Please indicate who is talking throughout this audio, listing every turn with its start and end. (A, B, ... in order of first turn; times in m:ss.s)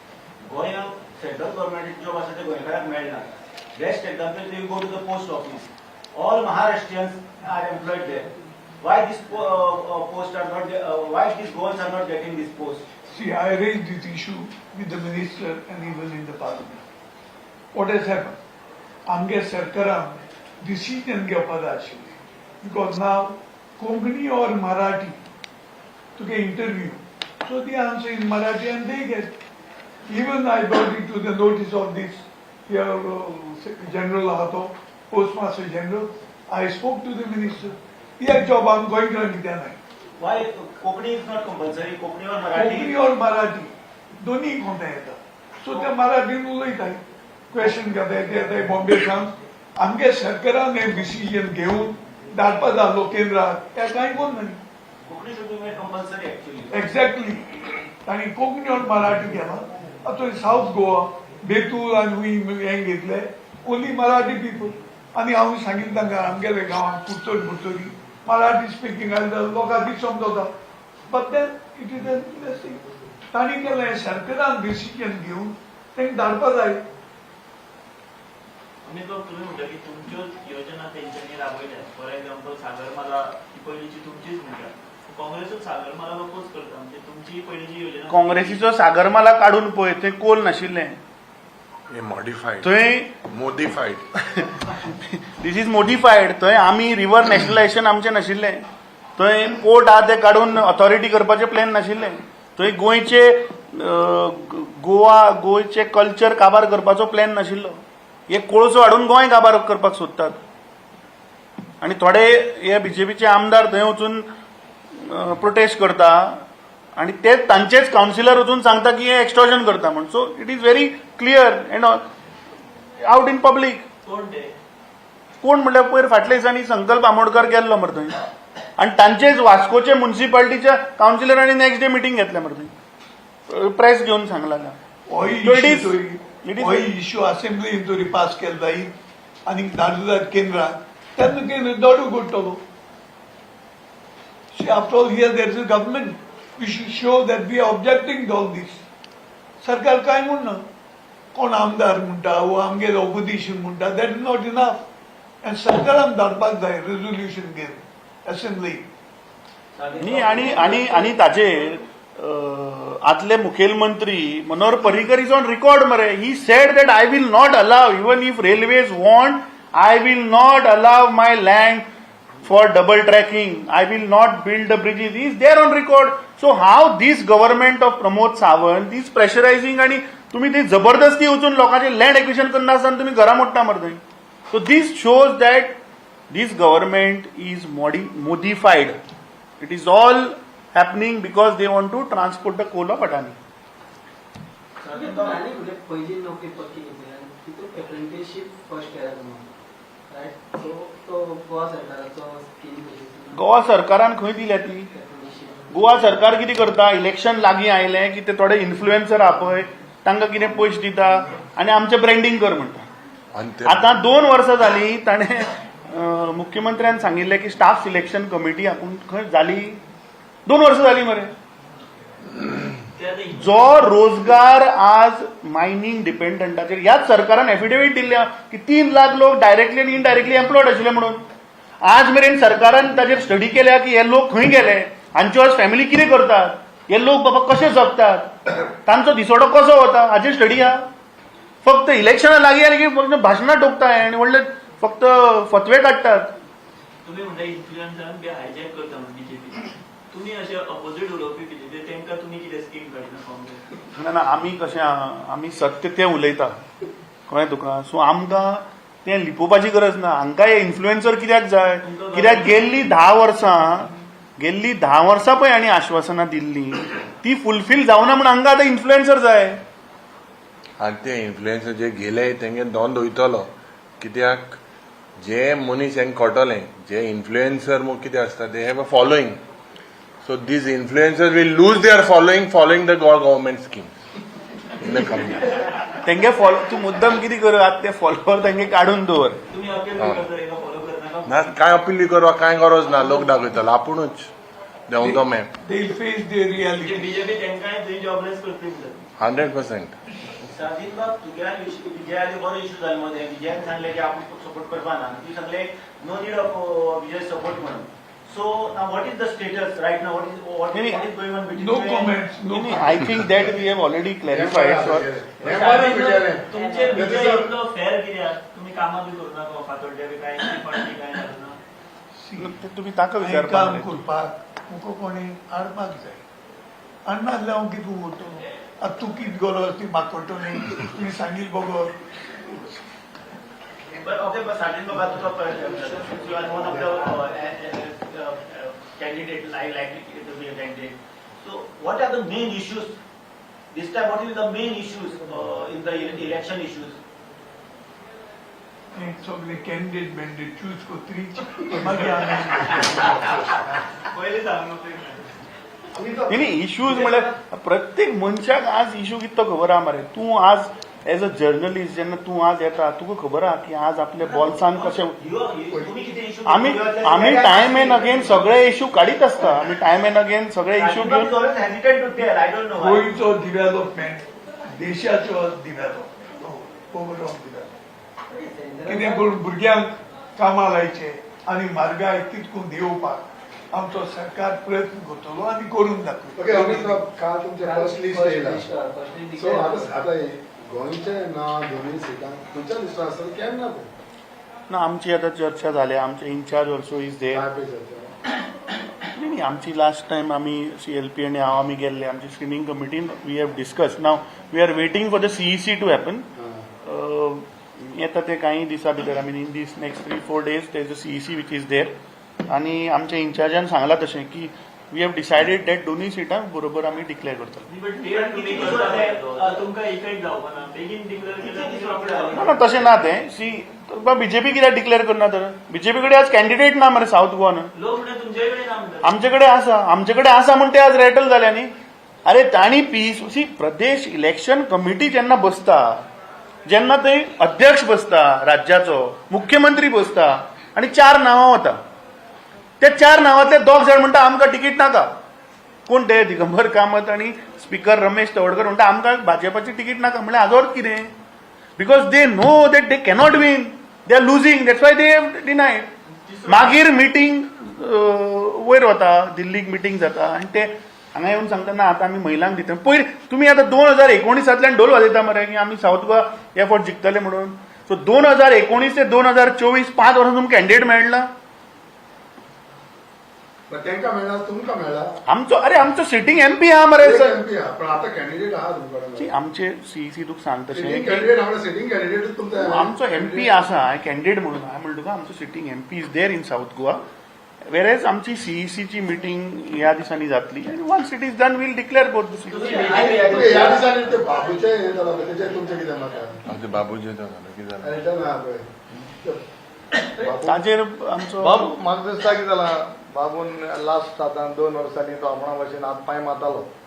0:00.4-0:12.9 A
0:13.1-0:16.8 B
0:17.7-0:18.4 B
0:19.1-0:25.2 B
0:26.2-0:29.3 B
0:30.1-0:39.8 B
0:40.2-0:43.0 A
0:42.5-0:54.6 B
0:55.0-0:57.0 A
0:56.7-0:57.5 B
0:58.0-1:10.5 B
1:11.1-1:16.8 B
1:18.8-1:28.6 C
1:28.1-1:31.0 D
1:31.9-1:32.7 E
1:32.6-1:33.2 D
1:33.2-1:34.1 E
1:34.7-1:38.6 D
1:39.2-1:50.4 D
1:51.8-1:54.3 D
1:55.0-1:56.4 D
1:57.0-2:02.0 D
2:03.0-2:03.8 D
2:04.0-2:04.5 C
2:05.4-2:08.2 D
2:08.8-2:12.7 D
2:13.5-2:16.9 D
2:15.1-2:18.9 B
2:19.5-2:22.6 B
2:24.5-2:28.8 B
2:29.6-2:30.6 B
2:31.3-2:34.8 B
2:35.4-2:38.8 B
2:39.8-2:41.7 A
2:40.0-2:51.9 D
2:52.4-3:05.8 D
3:06.3-3:09.0 D
3:09.6-3:13.4 D
3:14.8-3:15.4 A
3:14.8-3:19.5 F
3:20.1-3:23.4 F
3:23.3-3:24.9 D
3:24.9-3:26.1 F
3:25.7-3:32.9 D
3:33.3-3:33.9 E
3:33.6-3:39.8 D
3:40.5-3:41.3 D
3:43.0-3:43.8 C
3:43.4-3:51.2 D
3:51.8-4:00.9 D
4:01.6-4:06.4 D
4:07.0-4:13.6 C
4:14.0-4:16.6 D
4:17.3-4:29.6 D
4:21.8-4:22.7 C
4:30.8-4:34.6 E
4:35.2-4:39.4 E
4:40.2-4:44.0 E
4:44.8-4:45.7 E
4:46.0-4:49.4 D
4:49.5-4:51.5 C
4:50.0-4:50.2 E
4:51.3-4:54.3 E
4:54.9-4:55.5 E
4:55.0-4:57.2 B
4:56.8-4:59.0 C
4:59.2-5:00.0 E
5:00.4-5:12.2 A
5:10.7-5:11.0 D
5:11.6-5:13.5 B
5:12.5-5:15.1 D
5:14.2-5:17.5 G
5:15.4-5:21.6 C
5:16.5-5:17.3 F
5:22.2-5:22.5 B
5:22.4-5:24.0 D
5:23.2-5:26.2 B
5:27.1-5:32.0 B
5:34.0-5:43.0 A
5:43.7-5:47.0 A
5:49.0-5:53.4 B
5:52.8-5:53.1 C
5:54.0-5:55.3 C
5:56.0-5:57.2 H
5:56.3-6:05.2 D
6:04.2-6:09.6 A
6:06.5-6:11.3 D
6:10.8-6:13.3 A
6:12.8-6:17.7 B
6:18.3-6:19.3 F
6:18.8-6:27.0 B
6:26.4-6:28.7 G
6:27.6-6:30.0 F
6:29.4-6:33.9 G
6:34.7-6:37.5 D
6:37.3-6:38.1 G
6:39.1-6:46.3 D
6:46.4-6:46.7 G
6:46.8-6:52.0 D
6:52.5-6:57.7 D
6:57.7-7:02.8 C
6:58.0-6:59.6 A
7:01.4-7:02.9 A
7:02.3-7:07.7 D
7:07.8-7:09.2 C
7:09.0-7:11.7 D
7:12.2-7:16.1 D
7:16.7-7:21.8 D
7:22.8-7:25.1 D
7:25.9-7:31.1 D
7:31.8-7:35.9 D
7:36.4-7:51.3 D
7:53.7-7:55.2 G
7:55.3-7:57.4 D
7:57.0-7:59.3 G
7:59.2-8:01.3 D
8:00.7-8:03.5 G
8:02.6-8:07.0 D
8:07.7-8:13.0 D
8:12.5-8:13.9 C
8:12.5-8:14.0 F
8:12.6-8:13.0 A
8:13.0-8:16.4 G
8:16.5-8:18.0 E
8:17.8-8:19.4 G
8:20.2-8:20.6 G
8:20.4-8:21.7 D
8:21.4-8:26.7 H